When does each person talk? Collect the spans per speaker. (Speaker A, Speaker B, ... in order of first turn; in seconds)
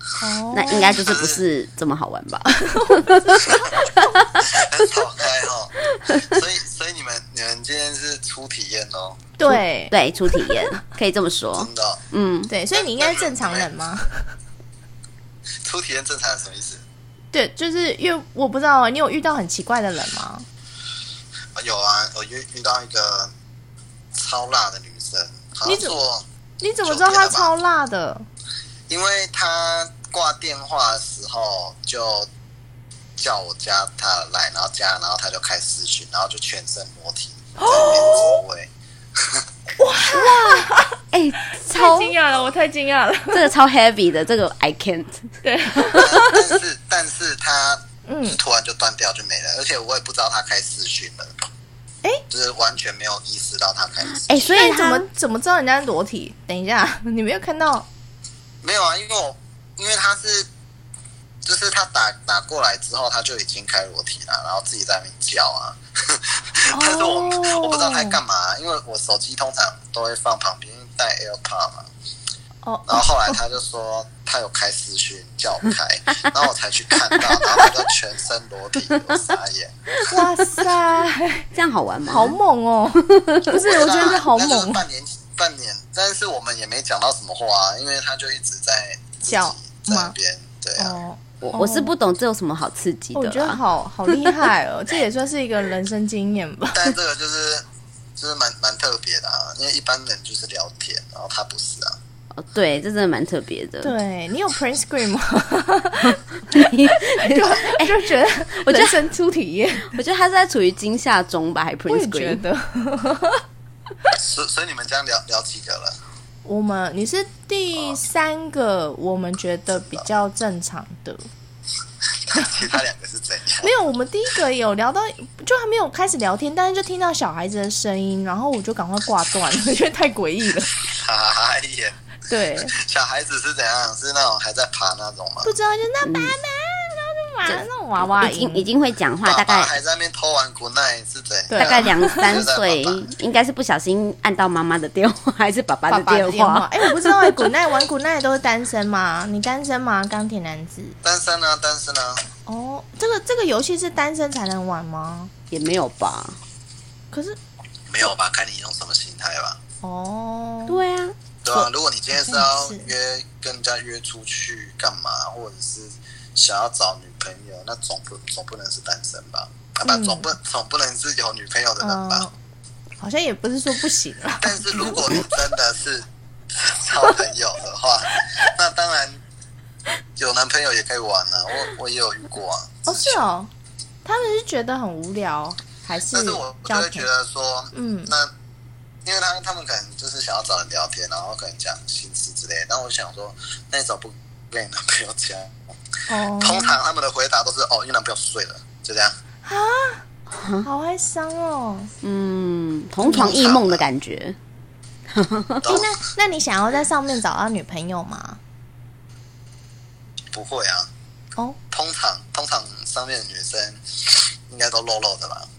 Speaker A: 0.2-1.0, 2.5-3.1, 9.4-9.9, 12.5-14.2, 17.3-20.4, 25.6-26.0, 26.6-28.2, 37.6-38.4, 39.8-40.9, 41.7-43.5, 45.4-46.3, 48.0-48.4, 54.4-57.9, 66.7-68.2, 72.6-73.4, 80.0-81.5, 82.1-84.8, 89.2-90.1, 90.8-91.9, 93.1-96.9, 103.8-109.9, 111.9-113.4, 116.4-121.3, 123.6-130.7, 132.3-132.7, 135.4-138.7, 141.5-142.3, 145.9-150.9, 152.4-155.3, 157.1-157.4, 159.8-160.8, 162.2-162.9, 169.8-170.2, 171.8-172.3, 173.0-175.1, 182.9-183.5, 184.0-187.1, 187.7-188.1, 196.1-196.8, 199.4-200.0, 200.6-201.9, 203.0-203.3, 205.6-208.4
Speaker B: 0.5-4.6, 9.4-12.5, 40.3-42.1, 43.3-46.3, 54.1-55.0, 77.0-77.7, 81.5-82.4, 83.0-83.6, 91.4-93.6, 102.3-103.9, 106.5-109.0, 109.9-112.4, 136.0-136.3, 137.4-139.7, 141.5-147.5, 155.5-156.4, 160.7-161.1, 200.3-200.7, 202.0-204.4, 205.1-205.8
Speaker C: 0.9-1.4, 4.4-9.2, 11.6-12.0, 12.7-13.7, 15.6-16.8, 21.5-23.3, 24.1-26.2, 26.8-27.5, 28.9-32.3, 33.2-39.5, 45.9-51.3, 52.3-54.3, 58.6-60.5, 61.4-71.9, 72.9-79.7, 83.6-91.0, 96.7-97.6, 98.2-102.0, 114.1-116.0, 122.3-123.7, 130.9-132.0, 132.7-135.6, 139.2-143.0, 151.0-152.2, 157.9-159.6, 161.4-172.2, 174.4-179.2, 180.2-183.3, 186.1-188.3, 189.0-195.6, 196.4-199.2, 203.1-203.8, 205.6-205.9, 210.3-210.9, 211.7-215.5